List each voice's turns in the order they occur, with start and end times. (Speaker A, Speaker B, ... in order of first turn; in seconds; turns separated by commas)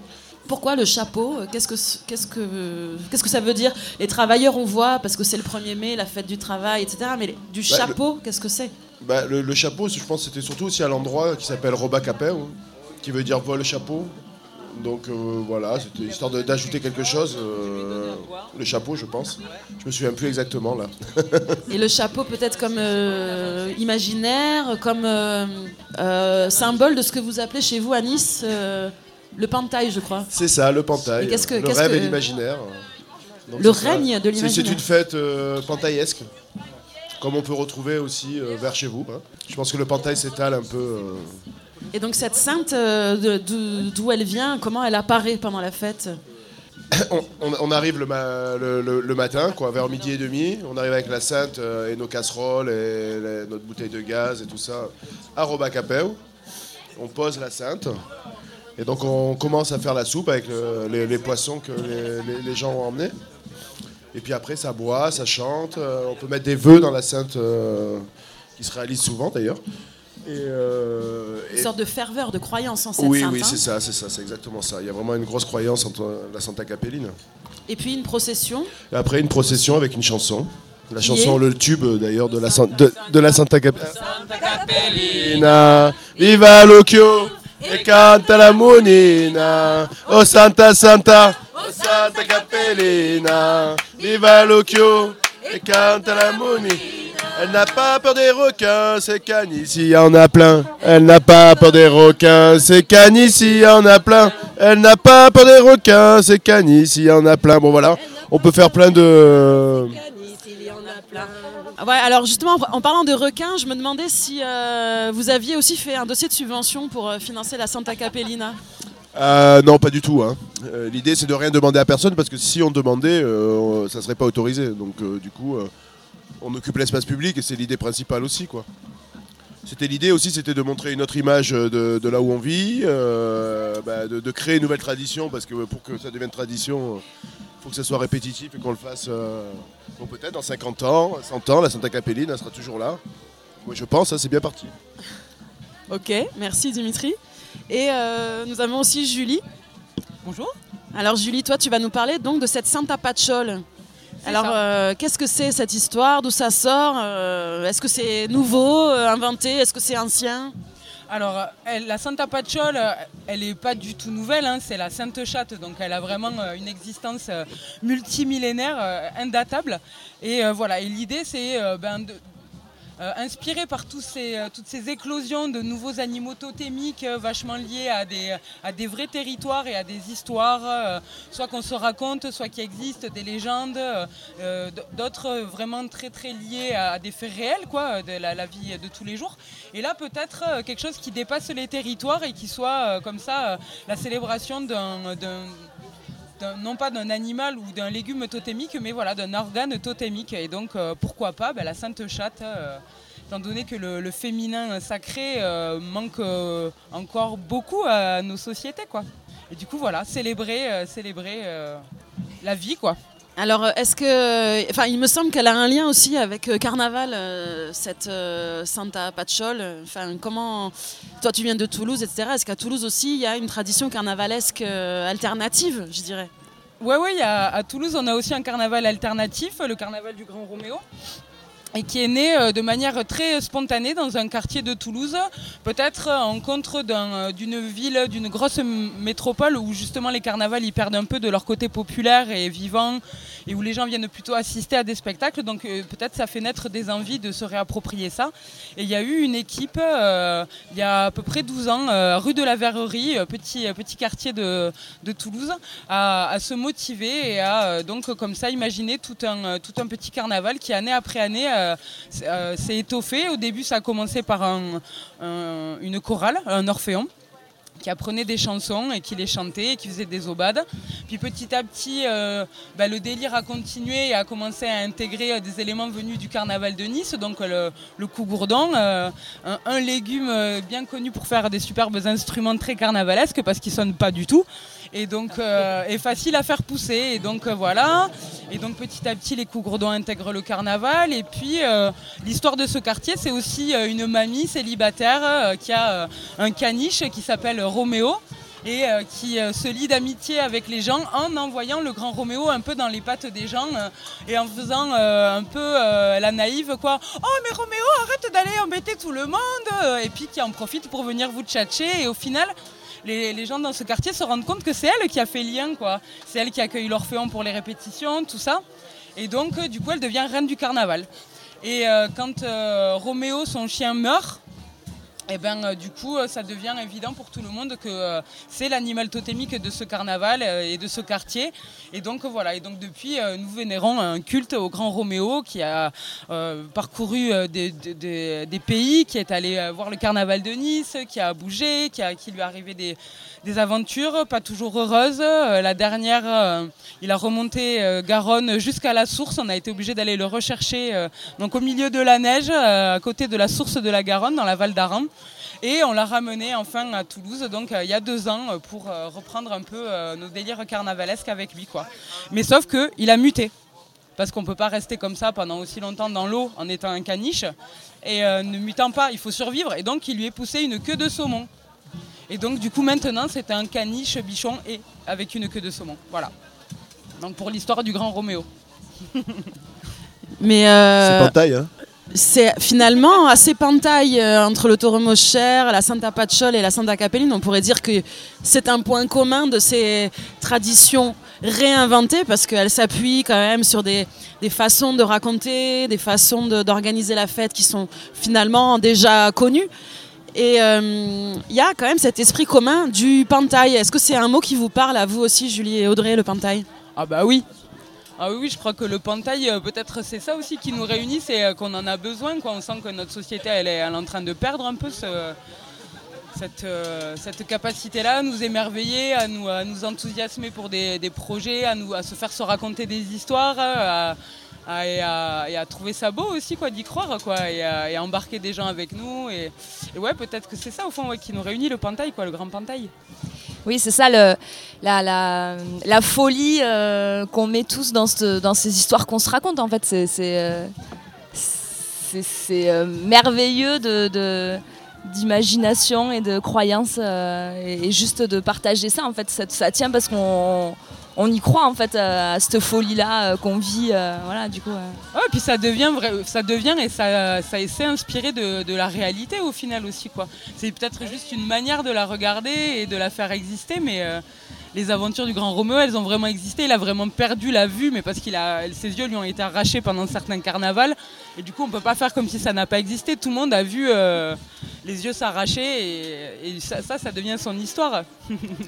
Speaker A: 0.5-8.7, Speaker B: 7.7-7.9, Speaker B: 9.0-14.1, Speaker B: 14.7-21.6, Speaker A: 21.7-30.3, Speaker B: 30.3-32.8, Speaker A: 31.1-32.2, Speaker B: 33.5-36.3, Speaker A: 33.6-34.8, Speaker B: 37.2-41.4, Speaker A: 41.9-46.2, Speaker B: 46.9-56.2, Speaker B: 57.0-58.0, Speaker B: 58.8-63.1, Speaker B: 64.1-68.0, Speaker B: 68.6-69.6, Speaker B: 70.2-71.7, Speaker A: 71.5-73.6, Speaker B: 73.0-77.1, Speaker A: 77.7-78.7, Speaker B: 78.9-83.9, Speaker A: 81.0-81.4, Speaker B: 85.0-110.0, Speaker A: 111.8-118.6, Speaker B: 119.1-125.7, Speaker B: 126.4-128.7, Speaker B: 129.6-137.0, Speaker B: 137.6-143.0, Speaker B: 143.6-144.7, Speaker A: 145.9-147.2, Speaker A: 147.7-149.4, Speaker C: 150.2-150.6, Speaker A: 150.9-153.6, Speaker A: 154.2-160.5, Speaker C: 154.2-154.6, Speaker C: 161.1-172.2, Speaker C: 173.0-195.7, Speaker C: 196.4-211.8, Speaker C: 212.4-213.0, Speaker A: 213.4-226.3, Speaker C: 226.8-230.8, Speaker C: 231.7-267.1, Speaker C: 267.8-318.6, Speaker C: 319.1-321.1, Speaker C: 321.6-324.4, Speaker C: 325.3-355.1, Speaker C: 355.6-363.5, Speaker C: 364.2-371.5, Speaker C: 372.3-376.3, Speaker C: 377.2-378.5, Speaker A: 380.4-381.3, Speaker B: 381.0-381.7, Speaker A: 382.1-399.7, Speaker A: 400.3-406.6, Speaker C: 407.0-407.4, Speaker C: 408.2-415.4, Speaker C: 416.3-432.9, Speaker D: 433.6-440.7, Speaker D: 441.3-455.0, Speaker C: 455.1-464.2, Speaker C: 464.7-478.5